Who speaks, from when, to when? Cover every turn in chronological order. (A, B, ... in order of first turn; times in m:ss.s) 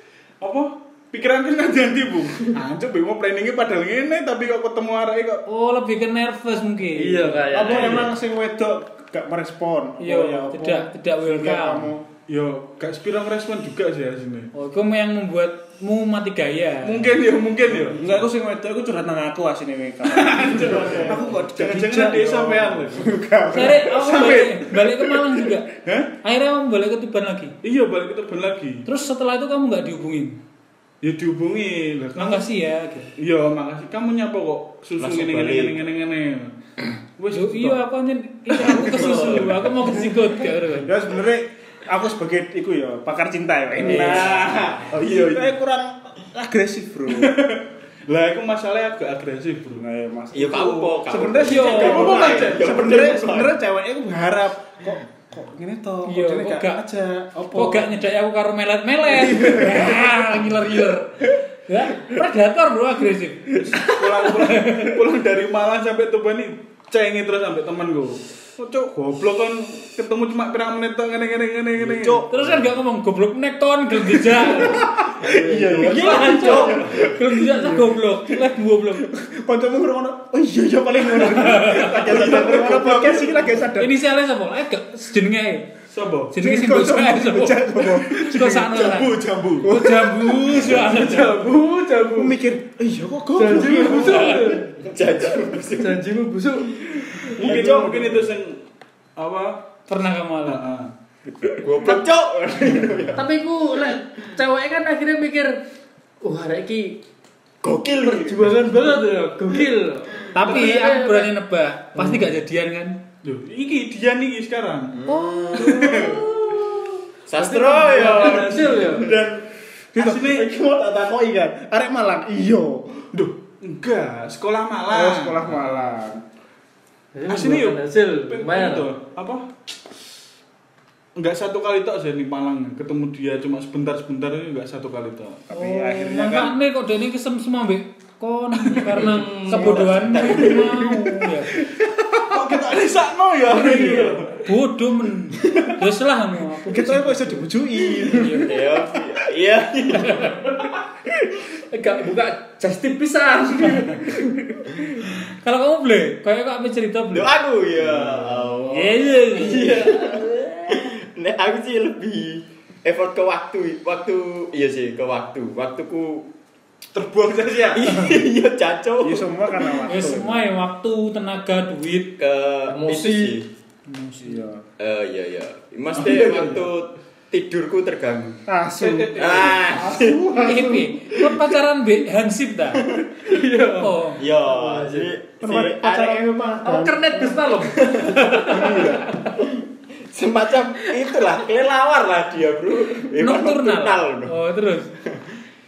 0:00.4-0:05.4 A
0:05.5-0:07.4 B
0:07.0-0:08.1 C
0:07.5-0:12.0 D
0:07.7-0:08.0 A
0:10.0-0:11.9 B
0:12.3-0:14.5 A
0:14.5-0:17.1 B
0:16.8-0:18.2 A
0:17.8-0:24.2 D
0:20.1-0:23.1 A
0:23.5-0:25.7 B
0:23.8-0:26.1 A
0:26.2-0:27.6 B
0:27.6-0:28.9 A
0:28.9-0:30.4 B
0:31.0-0:32.5 A
0:32.2-0:33.1 B
0:33.2-0:36.5 A
0:35.0-0:35.8 E
0:37.2-0:37.8 A
0:37.3-0:40.9 B
0:38.6-0:39.8 A
0:38.7-0:39.6 E
0:40.8-0:47.4 D
0:43.8-0:44.4 B
0:43.9-0:45.5 A
0:47.1-0:49.8 A
0:49.8-0:57.9 D
0:50.3-0:53.6 E
0:51.4-0:52.2 B
0:51.6-0:53.0 A
0:56.1-0:56.8 B
0:57.5-1:03.6 B
0:59.1-1:00.3 D
1:03.6-1:12.4 A
1:04.3-1:05.0 B
1:11.8-1:12.2 D
1:12.3-1:14.9 B
1:14.6-1:18.3 D
1:15.2-1:17.0 A
1:15.8-1:19.1 B
1:16.3-1:16.8 E
1:19.0-1:24.0 D
1:21.2-1:22.2 B
1:21.7-1:23.6 A
1:23.8-1:25.7 B
1:25.9-1:26.3 A
1:26.3-1:31.4 B
1:26.4-1:28.9 D
1:28.6-1:29.8 A
1:29.6-1:30.8 D
1:30.7-1:32.4 C
1:32.2-1:34.6 D
1:33.4-1:34.8 C
1:33.8-1:34.2 A
1:34.8-1:36.0 E
1:35.8-1:37.3 C
1:37.3-1:38.6 A
1:37.4-1:38.2 E
1:37.5-1:37.8 D
1:39.2-1:39.7 A
1:39.9-1:40.6 B
1:40.4-1:40.9 A
1:41.4-1:41.9 D
1:41.6-1:43.3 E
1:43.2-1:45.5 C
1:46.2-1:47.0 C
1:47.6-1:48.6 E
1:48.0-1:51.3 C
1:50.3-1:53.0 B
1:52.0-1:52.3 C
1:53.2-1:55.0 A
1:54.9-1:56.2 E
1:55.2-1:55.7 B
1:55.6-1:56.3 A
1:57.3-1:59.3 E
1:57.4-1:59.1 C
1:57.9-1:58.9 A
1:58.8-1:59.4 D
2:00.0-2:03.0 D
2:00.0-2:00.5 A
2:03.1-2:05.8 A
2:04.9-2:06.2 D
2:07.1-2:08.9 C
2:07.3-2:09.5 A
2:11.2-2:15.4 A
2:15.5-2:16.6 D
2:15.5-2:21.6 B
2:18.7-2:19.0 A
2:19.0-2:19.8 C
2:19.6-2:20.6 D
2:20.0-2:20.7 E
2:20.2-2:20.9 A
2:21.7-2:24.5 A
2:23.5-2:28.5 B
2:26.7-2:28.9 D
2:28.4-2:30.6 E
2:31.7-2:34.3 C
2:35.1-2:37.3 B
2:37.1-2:46.3 E
2:37.8-2:38.5 A
2:38.6-2:39.8 B
2:39.4-2:40.3 C
2:46.9-2:48.0 A
2:47.7-2:49.8 E
2:49.0-2:50.5 D
2:49.9-2:52.2 B
2:52.2-2:53.5 E
2:52.7-2:53.4 C
2:53.9-2:54.4 B
2:54.2-2:54.6 D
2:54.8-2:58.4 E
2:55.9-2:56.7 A
2:58.5-3:00.9 D
2:58.8-3:00.0 A
2:59.2-3:00.4 E
3:00.4-3:02.9 B
3:02.8-3:03.1 E
3:03.2-3:05.1 C
3:03.8-3:04.2 B
3:04.2-3:06.6 E
3:05.4-3:07.4 D
3:06.6-3:09.4 C
3:07.6-3:14.4 E
3:08.4-3:09.1 D
3:13.2-3:14.9 B